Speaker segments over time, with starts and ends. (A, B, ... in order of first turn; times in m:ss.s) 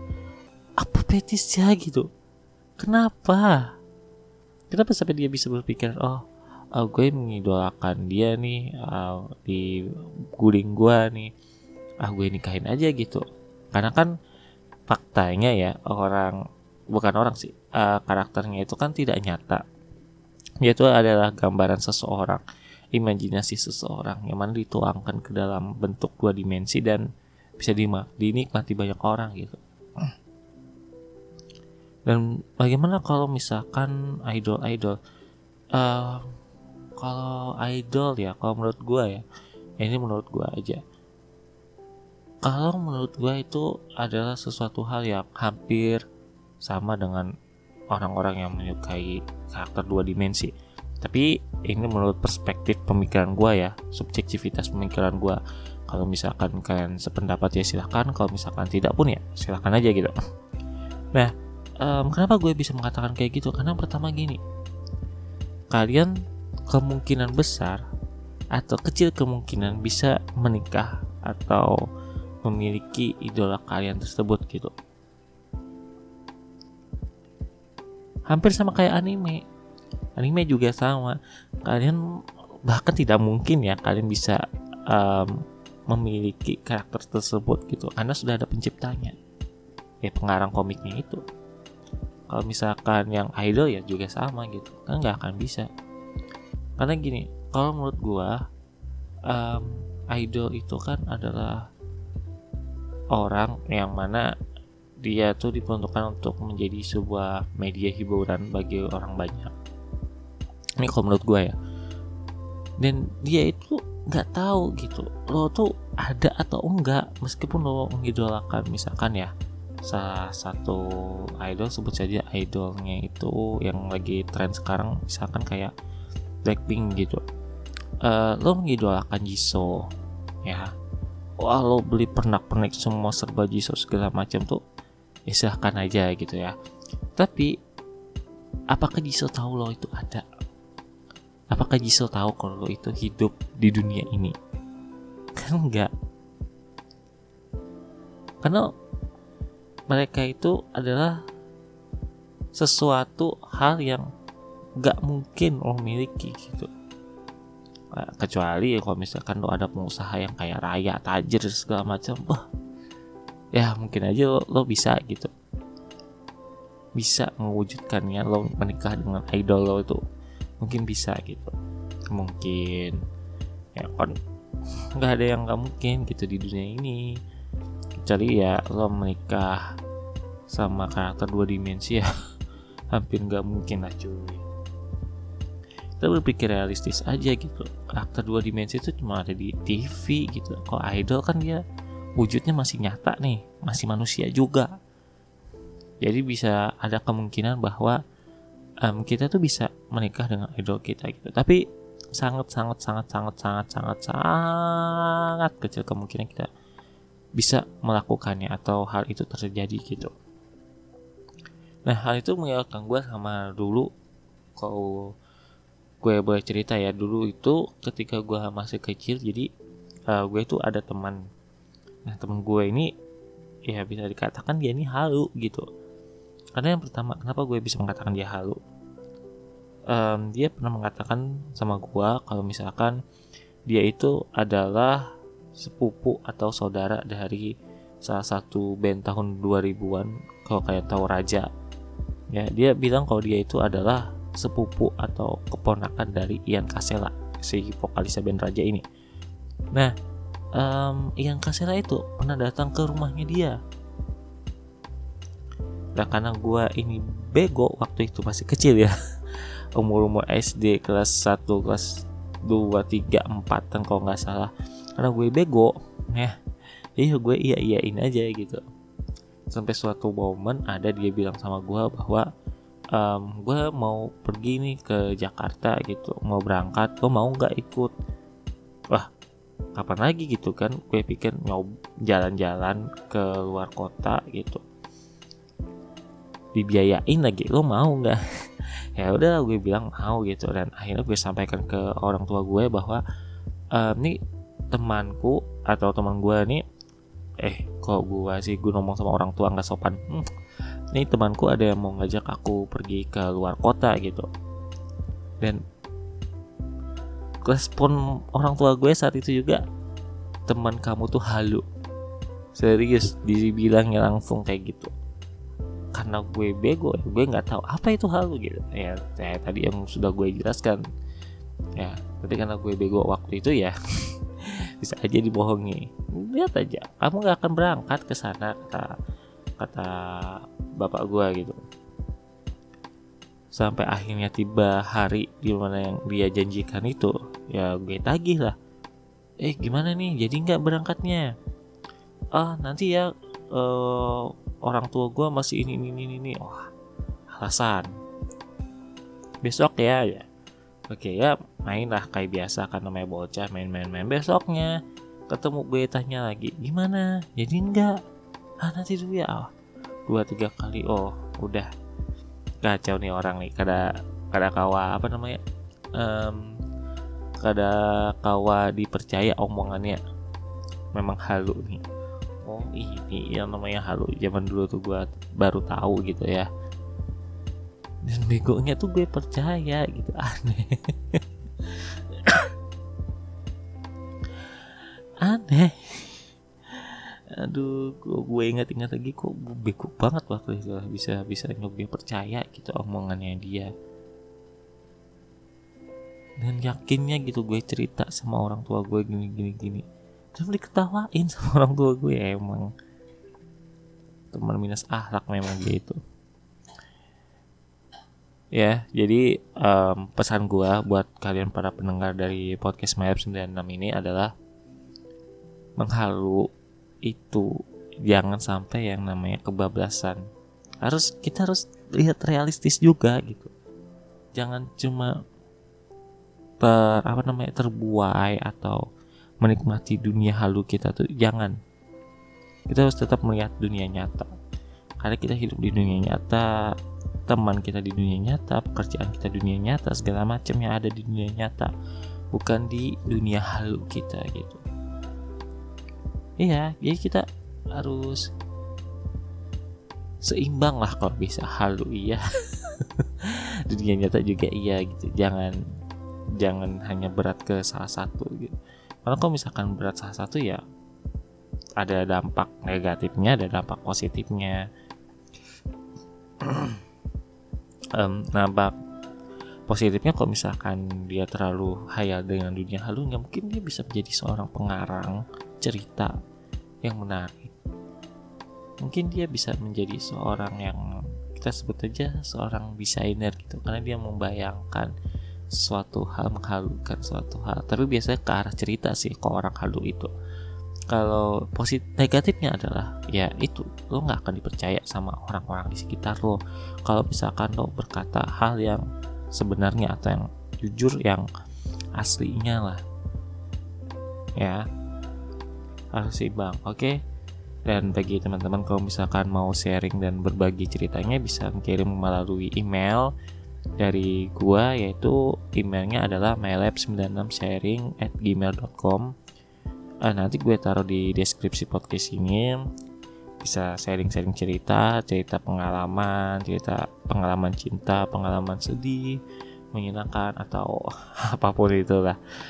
0:00.8-0:02.1 A
0:02.8-0:03.6 A
0:04.7-0:06.2 A
0:06.8-0:09.6 A
0:10.4-0:11.3 A
0:12.0-0:14.1 A
0:14.9-0:16.3 A
0:16.9-0:19.6 A
0:20.6-0:22.4 A
0:22.9-0:27.1 A
0:27.6-0:30.1 A
0:32.1-0:35.0 A
0:35.7-0:36.3 A
0:37.0-0:39.2 A
0:39.8-0:40.8 A
0:42.4-0:46.0 A
0:46.6-0:47.3 A
0:47.9-1:00.1 A
1:01.1-1:04.4 A
1:05.7-1:06.1 A
1:06.7-1:07.8 A
1:08.6-1:11.7 A
1:12.4-1:14.7 A
1:18.3-1:19.4 A
1:20.2-1:22.0 A
1:22.7-1:25.3 A
1:25.9-1:29.1 A
1:30.0-1:31.2 A
1:32.3-1:35.7 A
1:36.8-1:38.4 A
1:39.3-1:41.6 A
1:43.1-1:44.3 A
1:45.0-1:49.5 A
1:50.8-1:51.6 A
1:52.8-1:59.3 A
1:59.8-2:00.8 A
2:01.4-2:05.7 A
2:06.4-2:07.2 A
2:08.0-2:09.8 A
2:11.4-2:14.6 A
2:15.3-2:16.5 A
2:17.2-2:17.5 A
2:18.7-2:20.2 A
2:21.5-2:24.3 A
2:25.4-2:25.9 A
2:29.9-2:31.2 A
2:32.6-2:34.0 A
2:34.8-2:36.7 A
2:37.9-2:42.4 A
2:43.6-2:45.3 A
2:47.0-2:50.0 A
2:50.6-2:51.5 A
2:52.1-2:53.0 A
2:53.8-2:54.1 A
2:55.0-2:57.0 A
2:58.0-2:59.6 A
3:00.5-3:02.1 A
3:02.9-3:04.4 A
3:06.0-3:11.6 A
3:12.2-3:14.7 A
3:16.0-3:18.0 A
3:18.8-3:21.6 A
3:22.2-3:26.5 A
3:27.4-3:30.1 A
3:31.9-3:33.9 A
3:34.6-3:35.0 A
3:36.0-3:39.5 A
3:40.1-3:41.2 A
3:42.1-3:42.9 A
3:43.7-3:45.6 A
3:46.6-3:48.6 A
3:49.9-3:53.0 A
3:53.7-3:55.0 A
3:55.6-3:57.5 A
3:58.0-4:01.5 A
4:02.3-4:08.8 A
4:10.6-4:13.6 A
4:16.0-4:18.9 A
4:19.8-4:21.9 A
4:22.5-4:26.3 A
4:27.0-4:28.6 A
4:29.5-4:32.2 A
4:32.9-4:37.9 A
4:39.8-4:44.6 A
4:46.5-4:48.2 A
4:49.0-4:53.0 A
4:53.7-4:54.2 A
4:54.7-4:56.6 A
4:57.4-5:00.2 A
5:00.9-5:04.3 A
5:07.4-5:09.6 A
5:10.5-5:11.6 A
5:12.6-5:14.9 A
5:15.9-5:20.8 A
5:21.8-5:23.7 A
5:24.8-5:28.9 A
5:29.6-5:31.6 A
5:33.5-5:38.6 A
5:39.4-5:41.2 A
5:42.3-5:46.6 A
5:47.3-5:47.9 A
5:49.4-5:50.2 A
5:50.9-5:54.7 A
5:55.3-5:57.9 A
5:58.6-5:59.5 A
6:00.1-6:01.7 A
6:02.6-6:05.4 A
6:06.0-6:06.4 A
6:07.4-6:10.0 A
6:10.9-6:11.8 A
6:12.4-6:16.5 A
6:18.0-6:22.5 A
6:25.2-6:33.7 A
6:36.4-6:42.7 A
6:44.3-6:46.0 A
6:48.6-6:54.3 A
6:55.8-6:56.4 A
6:57.0-6:57.5 A
6:58.0-7:00.2 A
7:00.8-7:03.5 A
7:04.3-7:05.1 A
7:06.6-7:08.8 A
7:09.4-7:11.6 A
7:12.7-7:14.3 A
7:15.0-7:16.4 A
7:17.3-7:21.7 A
7:22.3-7:24.6 A
7:26.4-7:28.2 A
7:30.2-7:32.2 A
7:32.8-7:35.6 A
7:36.4-7:38.5 A
7:39.1-7:40.6 A
7:41.8-7:44.6 A
7:46.4-7:46.8 A
7:48.0-7:48.7 A
7:49.7-7:56.1 A
7:56.8-7:57.5 A
7:58.8-8:00.8 A
8:01.3-8:04.9 A
8:05.6-8:10.1 A
8:10.9-8:18.8 A
8:19.3-8:21.2 A
8:22.0-8:22.8 A
8:25.9-8:27.0 A
8:27.7-8:33.1 A
8:33.8-8:39.1 A
8:40.0-8:42.6 A
8:43.4-8:49.2 A
8:49.7-8:52.2 A